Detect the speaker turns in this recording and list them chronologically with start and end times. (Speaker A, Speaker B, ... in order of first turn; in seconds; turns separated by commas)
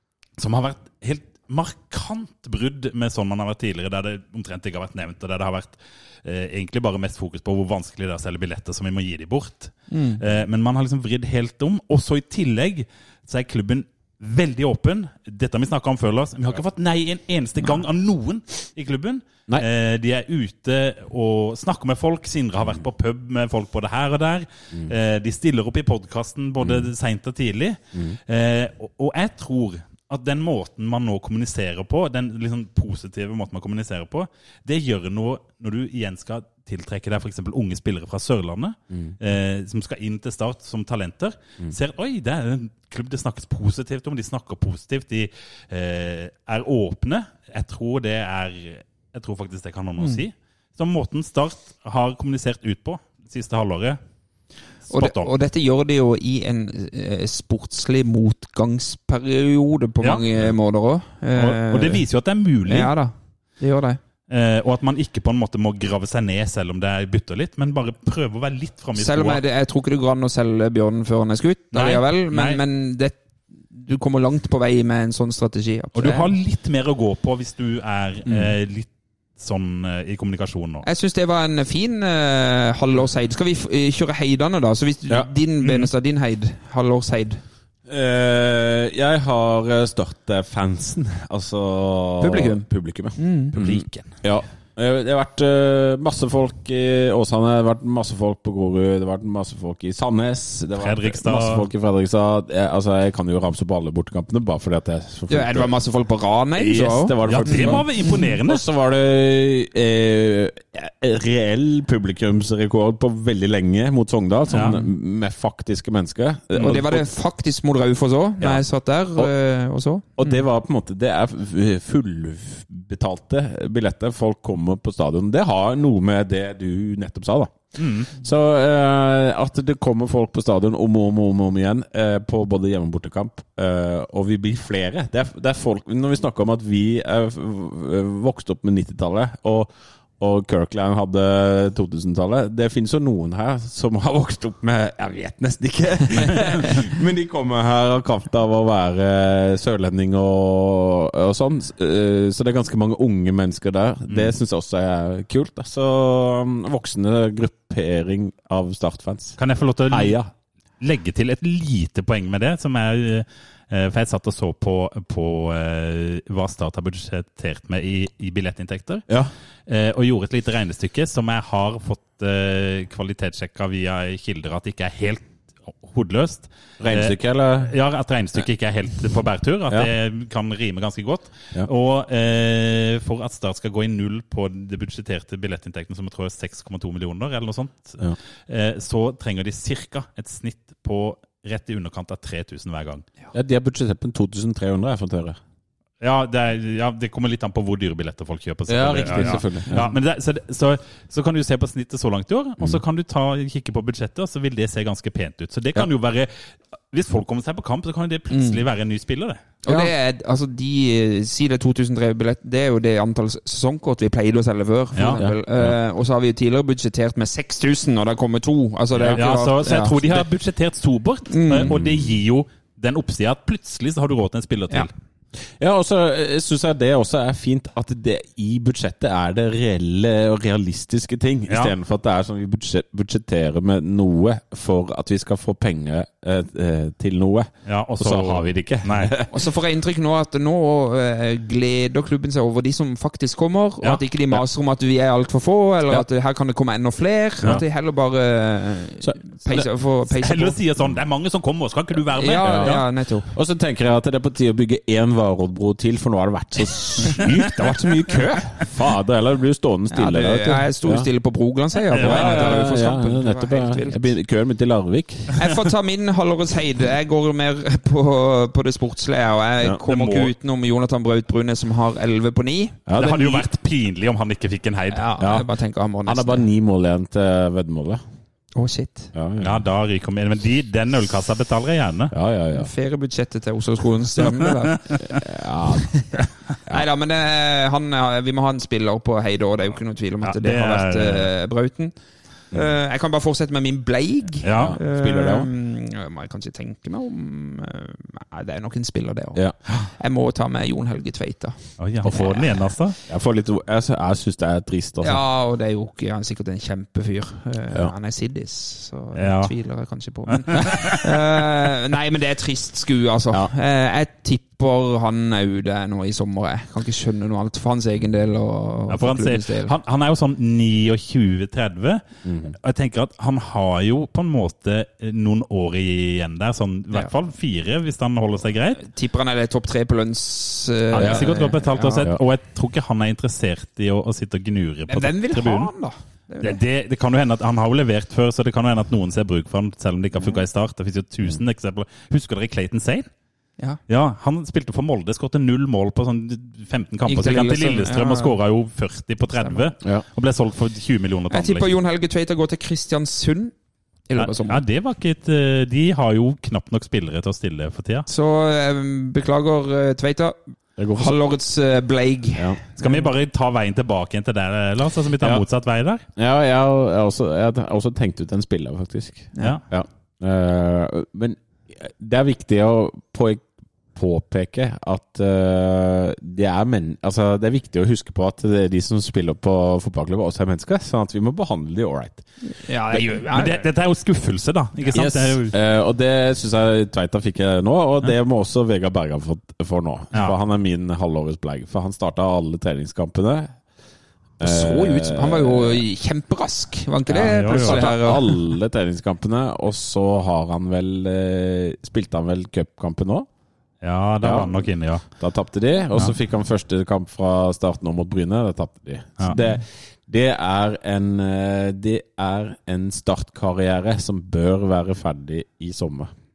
Speaker A: 0.4-54.0, Speaker B: 9.9-10.2, Speaker C: 26.6-26.9, Speaker A: 54.9-55.3, Speaker B: 54.9-62.1, Speaker A: 60.0-60.5, Speaker A: 61.3-63.0, Speaker B: 62.7-64.0, Speaker A: 64.3-69.4, Speaker B: 69.0-76.3, Speaker A: 71.7-72.6, Speaker A: 76.0-80.9, Speaker C: 78.3-78.5, Speaker B: 80.8-87.4, Speaker A: 85.6-85.9, Speaker C: 87.9-105.7, Speaker B: 92.2-93.5, Speaker A: 93.5-94.3, Speaker A: 100.8-101.7, Speaker B: 105.3-108.3, Speaker C: 106.5-117.1, Speaker A: 107.3-108.6, Speaker A: 114.5-114.8, Speaker B: 114.6-114.9, Speaker B: 116.6-120.4, Speaker C: 120.2-159.4, Speaker A: 127.8-128.1, Speaker A: 154.1-154.3, Speaker A: 159.4-160.2, Speaker C: 159.9-160.3, Speaker A: 160.8-169.1, Speaker A: 169.7-193.1, Speaker C: 176.8-177.7, Speaker C: 193.3-195.4, Speaker A: 196.0-209.4, Speaker C: 198.7-199.9, Speaker B: 199.1-199.8, Speaker B: 208.3-208.6, Speaker B: 209.7-220.2, Speaker C: 209.7-209.9, Speaker C: 215.2-215.7, Speaker A: 219.0-224.9, Speaker B: 221.3-221.7, Speaker C: 221.6-222.2, Speaker C: 225.4-239.4, Speaker A: 231.5-231.7, Speaker A: 237.7-239.1, Speaker B: 239.3-250.6, Speaker C: 243.9-244.4, Speaker C: 249.0-249.3, Speaker A: 249.5-252.8, Speaker B: 252.1-253.3, Speaker C: 252.4-261.1, Speaker B: 259.9-264.1, Speaker A: 261.9-262.7, Speaker C: 261.9-265.4, Speaker B: 265.4-272.8, Speaker A: 269.9-270.3, Speaker C: 272.9-273.5, Speaker A: 273.0-275.1, Speaker B: 274.9-276.5, Speaker C: 275.2-275.5, Speaker C: 276.0-278.0, Speaker B: 278.6-279.1, Speaker C: 279.1-279.6, Speaker A: 279.4-282.1, Speaker C: 282.1-282.7, Speaker B: 282.5-284.9, Speaker C: 285.1-286.0, Speaker B: 286.1-302.8, Speaker A: 290.2-291.3, Speaker A: 294.4-294.8, Speaker C: 294.6-295.5, Speaker A: 301.8-303.0, Speaker C: 303.1-305.2, Speaker B: 305.0-319.7, Speaker A: 309.1-309.5, Speaker A: 310.5-311.0, Speaker A: 318.9-322.0, Speaker C: 322.2-322.6, Speaker A: 322.6-328.8, Speaker B: 328.8-332.1, Speaker A: 330.9-335.7, Speaker C: 331.0-331.3, Speaker B: 334.9-336.6, Speaker A: 336.4-343.1, Speaker A: 343.9-351.7, Speaker B: 347.1-348.4, Speaker B: 349.4-349.7, Speaker B: 351.3-353.6, Speaker B: 354.1-354.6, Speaker A: 354.2-358.1, Speaker B: 358.1-360.4, Speaker C: 360.8-361.2, Speaker B: 361.0-363.1, Speaker A: 362.8-366.0, Speaker C: 366.1-382.3, Speaker B: 369.3-369.6, Speaker B: 382.4-383.7, Speaker A: 383.2-385.5, Speaker C: 384.9-393.6, Speaker C: 394.4-395.8, Speaker B: 394.4-398.3, Speaker C: 397.1-403.3, Speaker A: 397.2-397.9, Speaker A: 403.8-405.2, Speaker C: 404.2-416.1